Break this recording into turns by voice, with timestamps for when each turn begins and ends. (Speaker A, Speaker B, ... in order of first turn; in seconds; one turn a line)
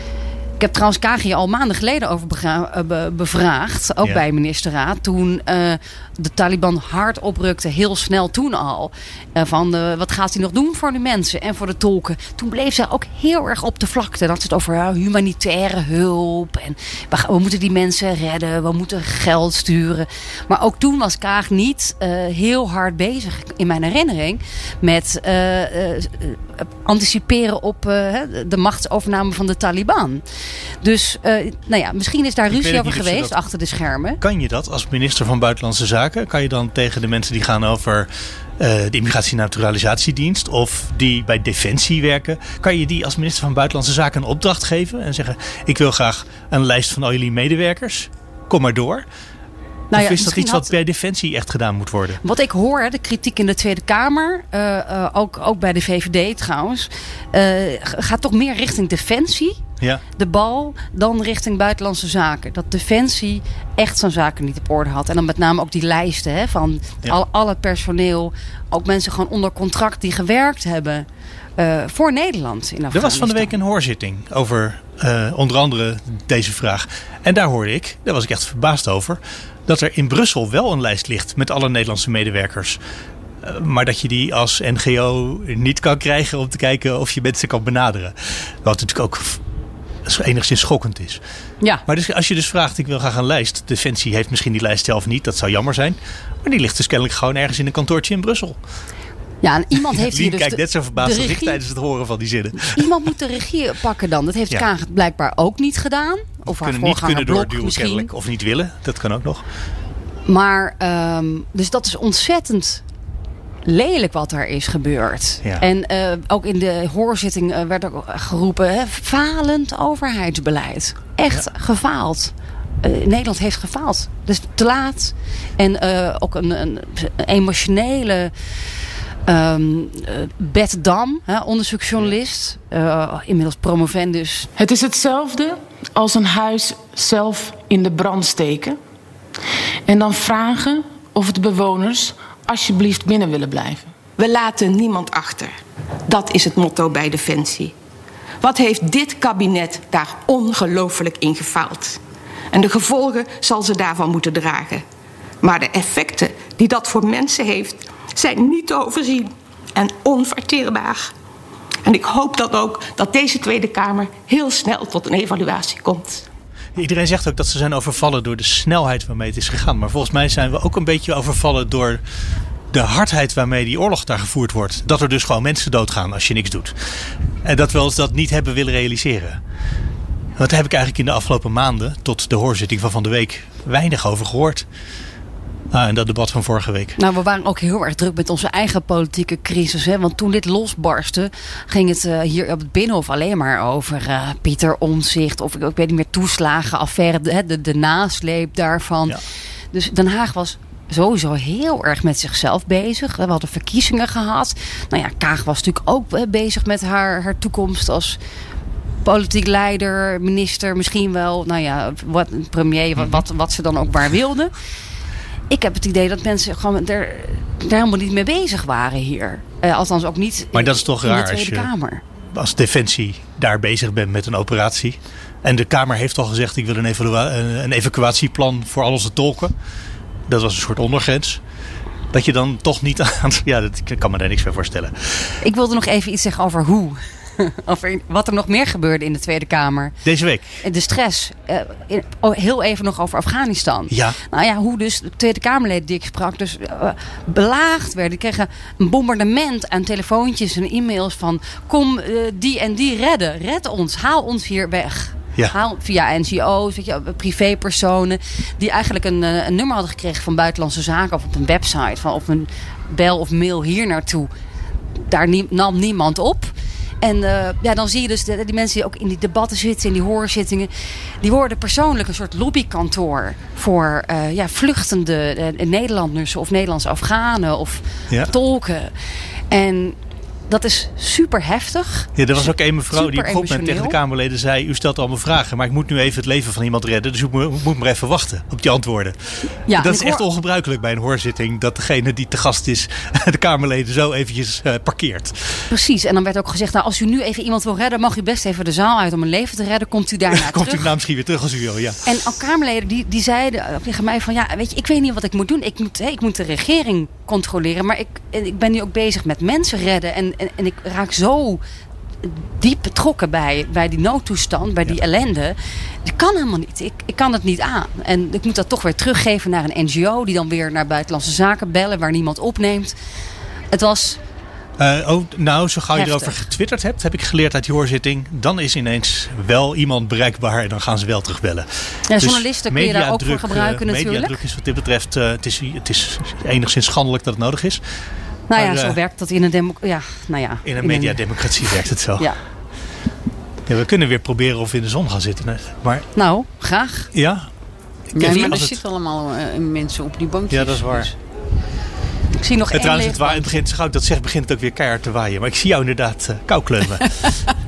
Speaker A: 0.6-30.2
Speaker A: 30.8-34.2
Speaker B: 32.5-33.4
Speaker B: 34.2-49.0
Speaker A: 49.9-50.7
Speaker B: 49.9-52.2
Speaker A: 52.2-59.6
Speaker A: 60.2-71.0
Speaker A: 71.6-73.5
Speaker B: 72.9-82.8
Speaker B: 83.4-89.4
Speaker B: 90.0-91.2
Speaker B: 91.9-98.6
Speaker A: 99.4-101.6
Speaker B: 99.7-102.9
Speaker A: 102.6-108.1
Speaker B: 106.4-109.4
Speaker A: 110.2-112.8
Speaker A: 113.7-128.3
Speaker A: 129.3-134.5
Speaker C: 134.6-138.8
Speaker C: 139.9-143.9
Speaker D: 144.2-145.5
Speaker D: 146.1-147.7
Speaker D: 148.4-152.0
Speaker D: 152.5-154.8
Speaker D: 155.4-161.1
Speaker D: 161.8-166.2
Speaker B: 166.8-172.0
Speaker B: 172.7-176.7
Speaker B: 177.4-179.4
Speaker B: 180.4-184.7
Speaker B: 185.7-187.0
Speaker A: 187.0-199.2
Speaker A: 199.7-208.2
Speaker A: 209.0-214.5
Speaker B: 213.0-213.2
Speaker A: 215.5-222.0
Speaker B: 220.5-221.7
Speaker B: 222.3-229.5
Speaker B: 230.3-231.4
Speaker B: 232.1-235.3
Speaker A: 235.4-239.9
Speaker B: 240.0-240.6
Speaker A: 240.6-264.3
Speaker B: 243.9-244.2
Speaker A: 265.1-270.7
Speaker A: 271.2-278.9
Speaker A: 279.5-280.0
Speaker A: 280.5-284.0
Speaker B: 282.1-289.2
Speaker A: 289.7-290.2
Speaker B: 289.7-295.6
Speaker A: 295.7-300.9
Speaker B: 300.3-302.0
Speaker A: 302.0-311.6
Speaker A: 312.2-322.9
Speaker A: 323.7-324.2
Speaker B: 324.8-337.8
Speaker A: 325.9-326.4
Speaker A: 332.1-334.4
Speaker A: 338.5-341.2
Speaker B: 338.5-339.0
Speaker B: 340.6-342.3
Speaker B: 343.6-346.1
Speaker A: 346.1-347.1
Speaker B: 347.1-347.5
Speaker B: 348.1-348.8
Speaker E: 348.1-351.1
Speaker B: 350.5-351.1
Speaker A: 352.4-353.6
Speaker B: 352.7-357.1